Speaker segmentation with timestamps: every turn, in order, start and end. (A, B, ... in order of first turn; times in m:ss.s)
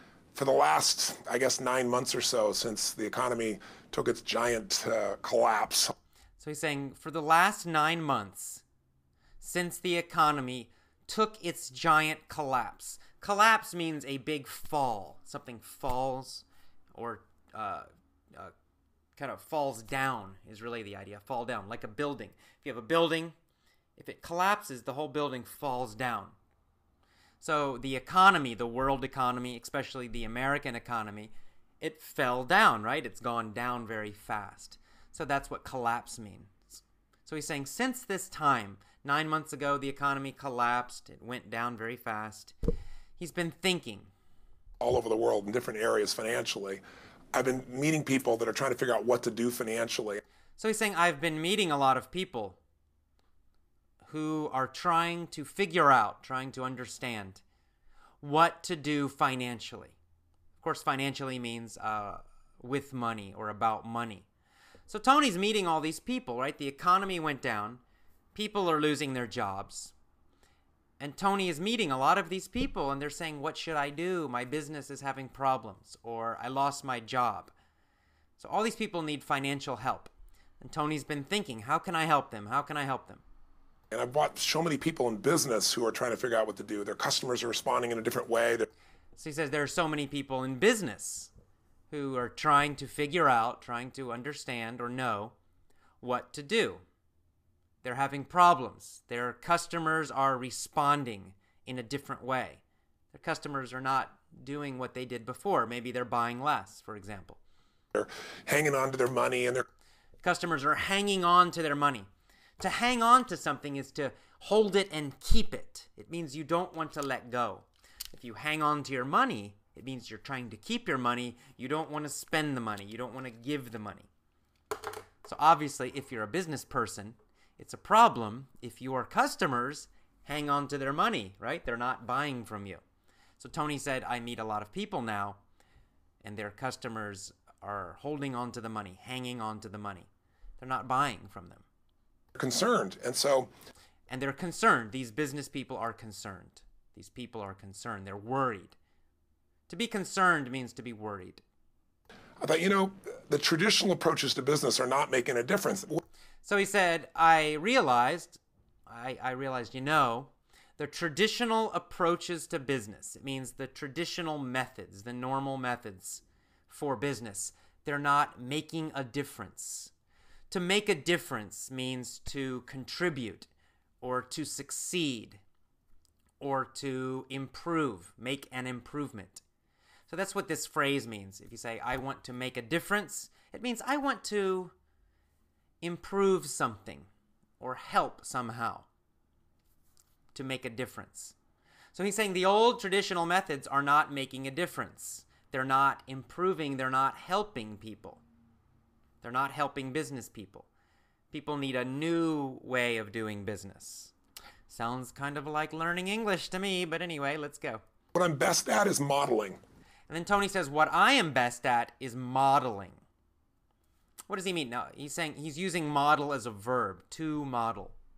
0:00.3-0:05.9 A
0:06.4-0:08.6 B
0:09.4-0:18.5 B
0:19.2-0:23.4 B
0:24.0-0:26.3 B
0:27.4-0:42.5 B
0:43.2-0:44.1 B
0:44.8-0:46.8 A
0:47.3-0:50.2 A
0:50.6-0:52.6 B
0:54.0-0:57.4 B
0:58.2-1:00.0 B
1:00.6-1:04.2 B
1:04.9-1:07.8 B
1:08.3-1:09.9 B
1:11.0-1:17.5 B
1:18.4-1:23.2 B
1:23.9-1:28.7 A
1:29.2-1:31.3 B
1:31.9-1:35.3 B
1:36.0-1:36.8 B
1:37.8-1:42.6 B
1:43.1-1:47.4 B
1:47.9-1:49.6 A
1:50.2-1:52.1 B
1:52.6-2:04.1 B
2:05.2-2:12.8 B
2:13.4-2:15.4 B
2:16.2-2:20.1 B
2:20.6-2:21.6 B
2:22.4-2:23.5 A
2:24.1-2:28.8 B
2:29.7-2:31.4 B
2:32.4-2:36.0 A
2:36.4-2:49.9 B
2:50.5-2:53.5 B
2:54.0-2:55.4 B
2:56.4-2:59.4 B
3:00.1-3:04.7 B
3:05.8-3:07.1 B
3:07.6-3:08.9 B
3:10.3-3:11.4 B
3:11.9-3:18.2 B
3:19.2-3:20.7 B
3:21.3-3:24.1 B
3:24.7-3:27.8 B
3:28.1-3:29.6 A
3:30.1-3:33.0 B
3:34.3-3:38.0 B